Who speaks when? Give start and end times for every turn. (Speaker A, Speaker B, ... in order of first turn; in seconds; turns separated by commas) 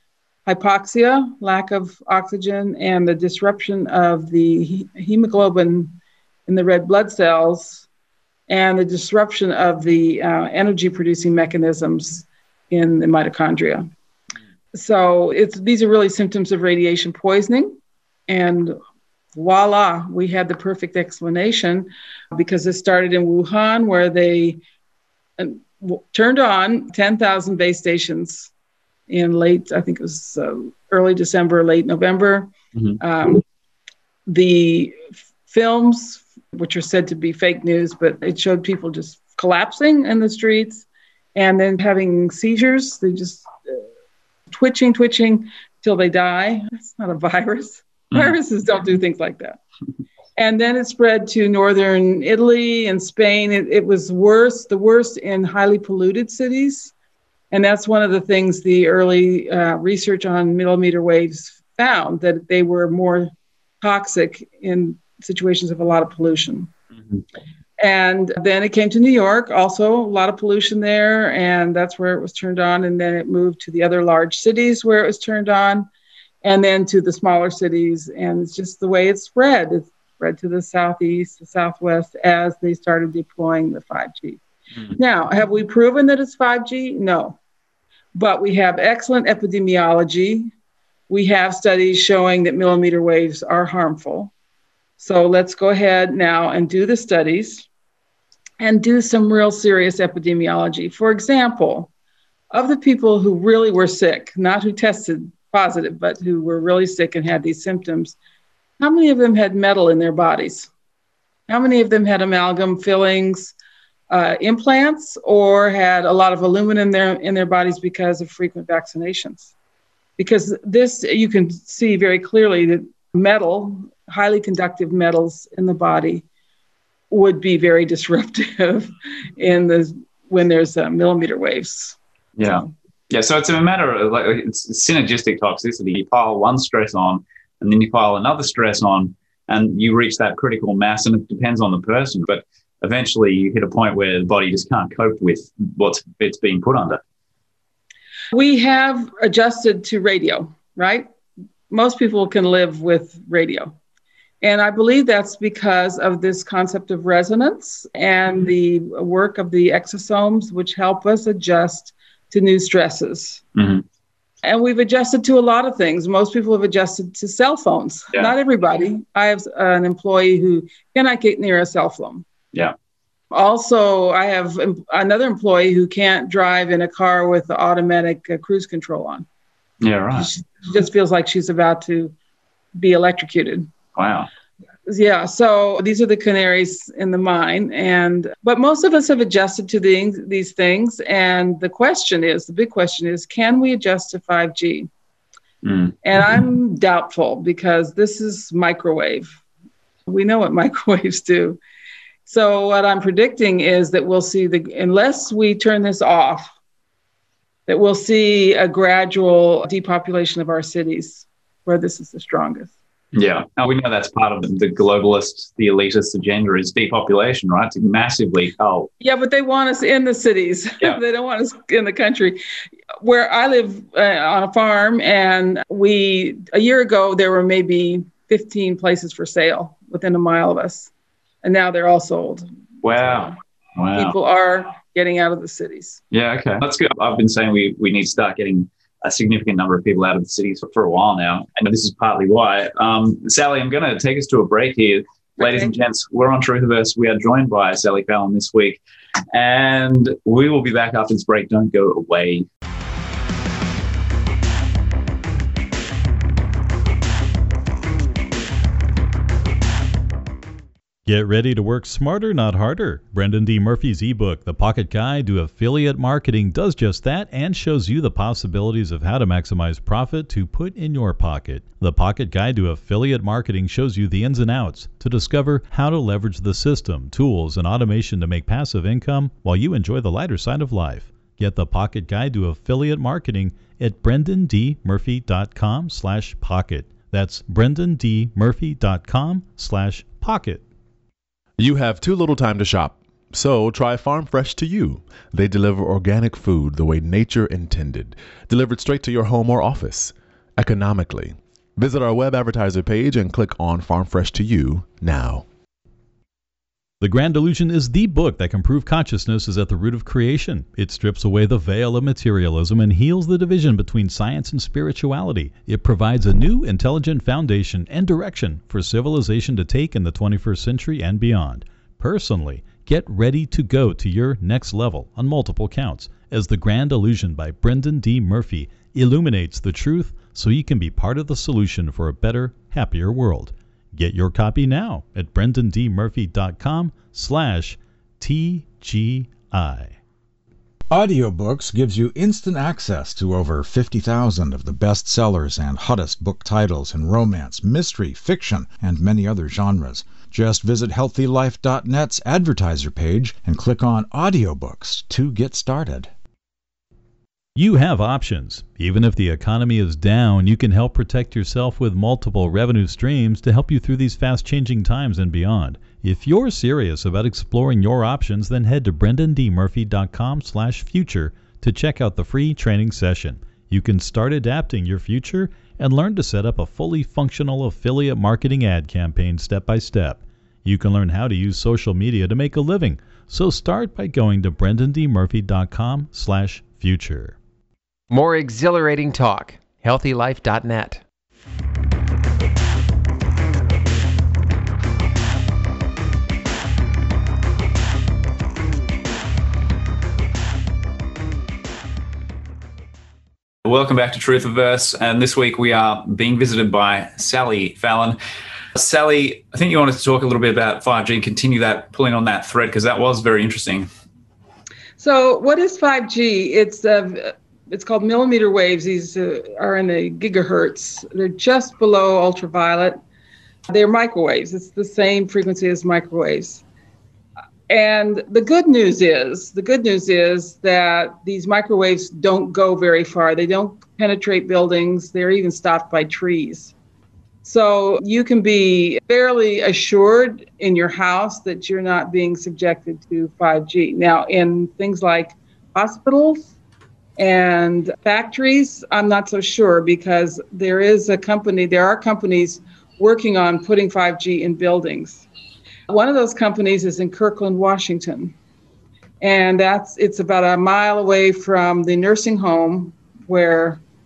Speaker A: 0.5-6.0, Speaker A: 6.5-7.8, Speaker A: 8.5-13.9, Speaker A: 14.7-17.8, Speaker A: 18.3-18.8, Speaker A: 19.3-24.6, Speaker A: 25.4-28.5, Speaker A: 29.1-33.4, Speaker A: 34.3-43.8, Speaker A: 44.5-49.6, Speaker A: 50.4-56.9, Speaker A: 57.5-66.7, Speaker A: 67.8-75.9, Speaker A: 76.4-84.4, Speaker A: 85.0-87.4, Speaker A: 88.1-90.5, Speaker A: 91.1-94.3, Speaker A: 95.0-97.7, Speaker A: 98.6-101.9, Speaker A: 102.5-108.2, Speaker A: 108.8-110.7, Speaker A: 111.5-113.5, Speaker A: 114.1-119.5, Speaker A: 120.2-126.2, Speaker A: 127.1-132.7, Speaker B: 132.4-147.0, Speaker A: 148.3-151.1, Speaker A: 151.7-153.8, Speaker A: 154.4-163.4, Speaker B: 163.6-163.8, Speaker A: 164.4-172.2, Speaker A: 173.3-179.3, Speaker B: 179.8-180.3, Speaker A: 180.1-182.1, Speaker A: 182.8-183.7, Speaker B: 184.0-184.3, Speaker A: 184.9-194.9, Speaker B: 195.6-196.0, Speaker A: 196.0-199.4, Speaker A: 200.1-201.6, Speaker A: 202.3-206.5, Speaker A: 207.7-212.7, Speaker B: 213.1-218.9, Speaker A: 219.0-222.4, Speaker A: 223.0-230.9, Speaker A: 231.4-232.5, Speaker B: 232.8-234.2, Speaker A: 233.0-233.3, Speaker A: 234.0-236.0, Speaker B: 236.1-248.8, Speaker A: 245.4-245.7, Speaker B: 249.3-252.5, Speaker C: 261.1-290.6, Speaker D: 291.6-305.5, Speaker C: 307.0-340.0, Speaker E: 340.9-356.1, Speaker C: 357.6-387.4, Speaker F: 388.1-391.0, Speaker B: 403.6-408.2, Speaker B: 408.8-413.9, Speaker A: 415.0-423.0, Speaker A: 423.7-426.6, Speaker A: 427.7-436.7, Speaker A: 437.4-446.5, Speaker A: 447.2-455.2, Speaker A: 455.9-458.4, Speaker A: 459.2-463.8